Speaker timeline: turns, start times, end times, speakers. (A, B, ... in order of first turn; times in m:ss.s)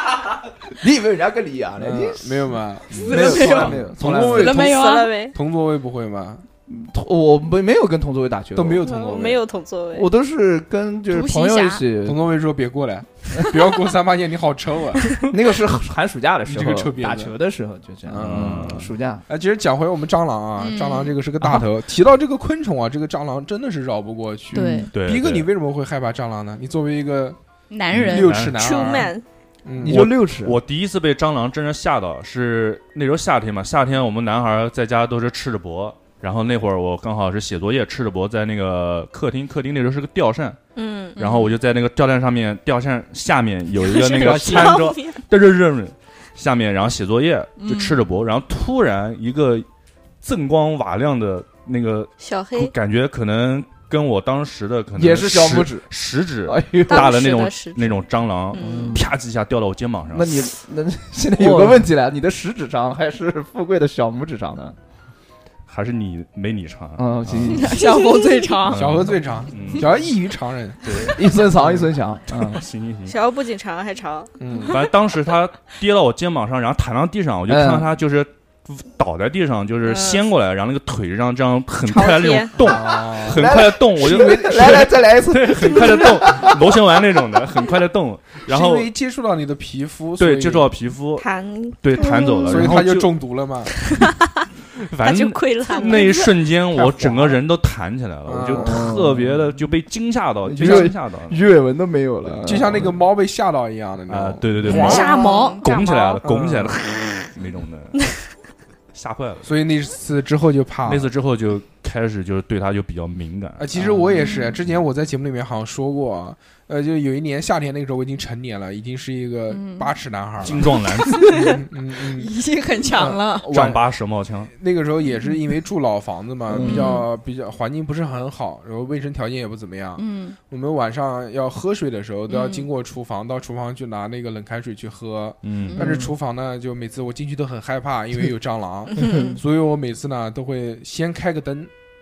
0:00.7-0:04.7 A
0:01.8-0:06.4 B
0:02.9-0:05.2 C
0:04.4-0:05.3 D
0:06.7-0:08.8 A
0:08.5-0:09.4 B
0:08.8-0:10.1 D
0:09.9-0:12.2 A
0:11.1-0:11.8 C
0:12.0-0:15.2 B
0:15.2-0:19.2 A
0:16.4-0:17.4 B
0:18.0-0:27.4 B
0:18.2-0:18.9 E
0:20.6-0:21.2 C
0:24.5-0:24.9 C
0:24.5-0:24.9 A
0:24.9-0:25.5 E
0:27.7-0:28.5 C
0:27.9-0:28.6 E
0:27.9-0:29.1 B
0:28.6-0:29.2 D
0:29.6-0:30.0 B
0:29.8-0:30.6 A
0:29.8-0:40.6 E
0:40.8-0:41.4 D
0:41.2-0:41.5 C
0:41.2-0:49.7 E
0:43.8-0:45.2 D
0:47.6-0:48.1 C
0:50.2-1:00.5 E
0:52.2-0:52.7 D
0:54.9-0:55.9 A
0:56.4-0:57.1 A
0:56.9-0:59.0 D
0:58.6-0:59.1 A
1:00.1-1:04.8 A
1:01.4-1:01.8 E
1:05.7-1:07.8 E
1:07.0-1:07.8 A
1:07.5-1:09.0 C
1:07.8-1:08.5 D
1:08.6-1:10.0 E
1:08.7-1:11.1 B
1:10.8-1:13.2 E
1:11.1-1:12.6 A
1:13.0-1:14.9 D
1:14.4-1:14.8 B
1:14.6-1:28.9 E
1:17.5-1:17.9 A
1:19.8-1:20.2 D
1:21.8-1:22.5 D
1:22.6-1:23.6 B
1:22.6-1:26.5 A
1:28.5-1:30.7 B
1:30.2-1:31.2 E
1:31.2-1:32.7 D
1:31.8-1:33.1 E
1:32.0-1:32.4 C
1:32.5-1:33.7 B
1:33.8-1:34.3 D
1:34.8-1:41.4 E
1:35.0-1:36.4 D
1:36.7-1:37.4 B
1:38.2-1:39.0 B
1:38.6-1:39.5 A
1:40.4-1:42.9 A
1:40.6-1:40.9 B
1:42.3-1:42.9 E
1:42.4-1:45.0 B
1:44.1-1:48.1 E
1:44.6-1:46.1 C
1:44.7-1:46.2 D
1:46.2-1:46.8 B
1:48.9-1:49.5 E
1:49.4-1:51.1 B
1:50.8-1:54.0 E
1:53.6-2:02.3 B
1:54.1-1:54.6 C
1:59.5-1:59.9 C
2:00.4-2:01.5 E
2:00.7-2:03.6 C
2:02.9-2:03.8 B
2:03.5-2:04.5 E
2:04.5-2:21.7 B
2:05.1-2:05.4 C
2:06.5-2:07.0 A
2:06.6-2:07.1 C
2:10.0-2:10.4 C
2:12.3-2:12.6 C
2:15.4-2:15.9 E
2:15.7-2:16.0 C
2:19.0-2:19.3 D